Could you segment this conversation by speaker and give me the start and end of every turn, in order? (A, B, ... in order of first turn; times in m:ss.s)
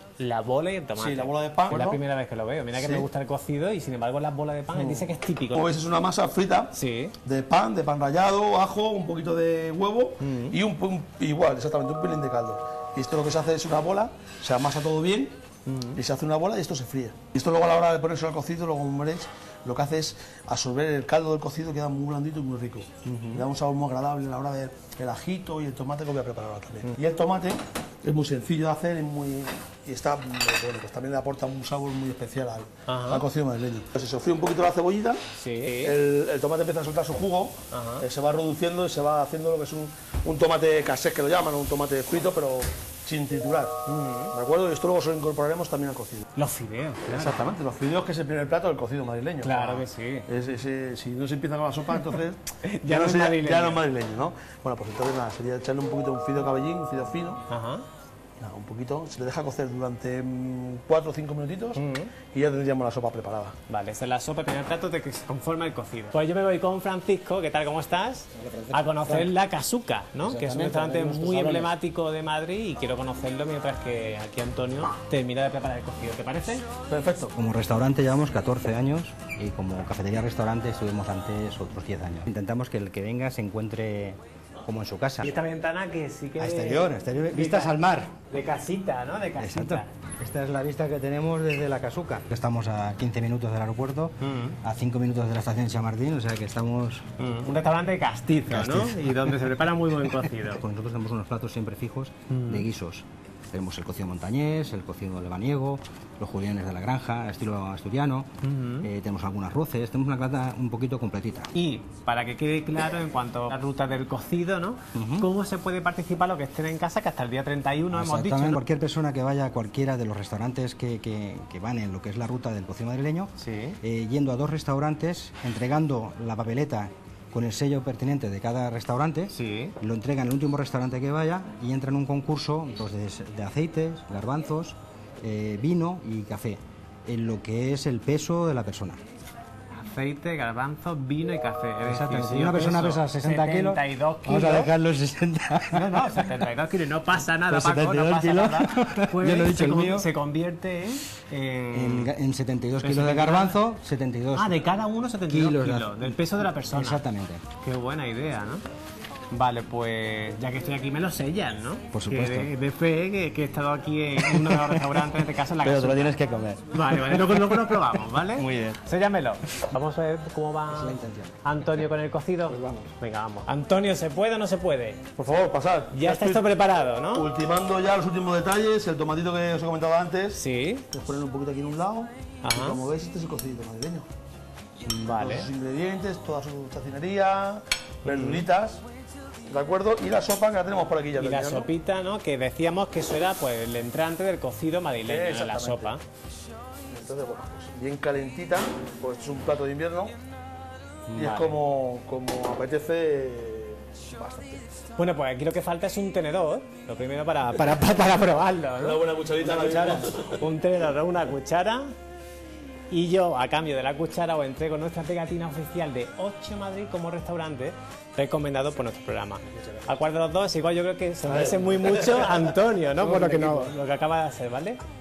0:00.2-0:05.7 A
0:01.0-0:02.0 B
0:02.7-0:03.1 B
0:04.7-0:06.7 B
0:06.7-0:07.1 A
0:07.2-0:15.3 B
0:10.2-0:10.5 A
0:15.7-0:16.0 A
0:16.0-0:43.8 B
0:23.1-0:23.4 A
0:32.9-0:33.2 A
0:35.4-0:36.0 A
0:37.7-0:38.0 A
0:43.9-0:44.3 A
0:44.3-0:46.2 B
0:46.4-0:47.5 A
0:47.1-0:57.4 B
0:49.4-0:50.3 A
0:52.0-0:53.8 A
0:57.5-0:57.8 A
0:58.4-1:01.8 B
1:01.8-1:02.1 A
1:02.3-1:03.6 B
1:03.7-1:16.6 A
1:08.4-1:09.3 C
1:10.2-1:11.7 C
1:16.9-1:17.3 B
1:17.4-1:25.3 C
1:25.2-1:27.8 A
1:26.4-1:28.1 C
1:28.3-1:29.9 A
1:29.4-1:37.1 C
1:34.2-1:34.6 A
1:37.2-1:40.6 A
1:38.5-1:39.4 C
1:40.1-1:48.3 C
1:42.3-1:42.7 A
1:48.4-1:48.9 A
1:48.8-1:51.5 C
1:51.5-1:58.6 A
1:55.0-1:55.3 C
1:57.9-2:03.3 C
2:03.4-2:03.8 A
2:03.8-2:19.0 C
2:09.3-2:09.8 A
2:19.8-2:24.7 A
2:21.8-2:26.4 C
2:25.7-2:32.1 A
2:27.5-2:30.1 C
2:31.7-2:34.6 C
2:32.8-2:33.6 A
2:34.4-2:37.0 A
2:35.3-2:37.4 C
2:37.6-2:38.6 A
2:39.3-2:46.2 A
2:41.9-2:42.5 C
2:44.2-2:45.1 C
2:45.6-2:47.8 C
2:46.7-2:55.1 A
2:48.4-2:48.8 C
2:50.7-2:51.4 C
2:52.5-2:52.9 C
2:55.2-2:56.4 B
2:55.9-2:57.3 A
2:57.1-3:00.4 B
3:00.4-3:00.9 A
3:00.9-3:04.1 B
3:02.4-3:02.8 A
3:04.8-3:05.5 A
3:05.1-3:08.8 B
3:08.0-3:08.4 A
3:09.5-3:11.7 B
3:11.2-3:16.0 A
3:15.0-3:16.0 B
3:16.9-3:20.1 B
3:21.1-3:21.6 A
3:21.2-3:24.6 B
3:25.0-3:31.9 A
3:28.8-3:30.5 B
3:32.9-3:44.8 A
3:39.6-3:39.9 B
3:41.2-3:43.8 B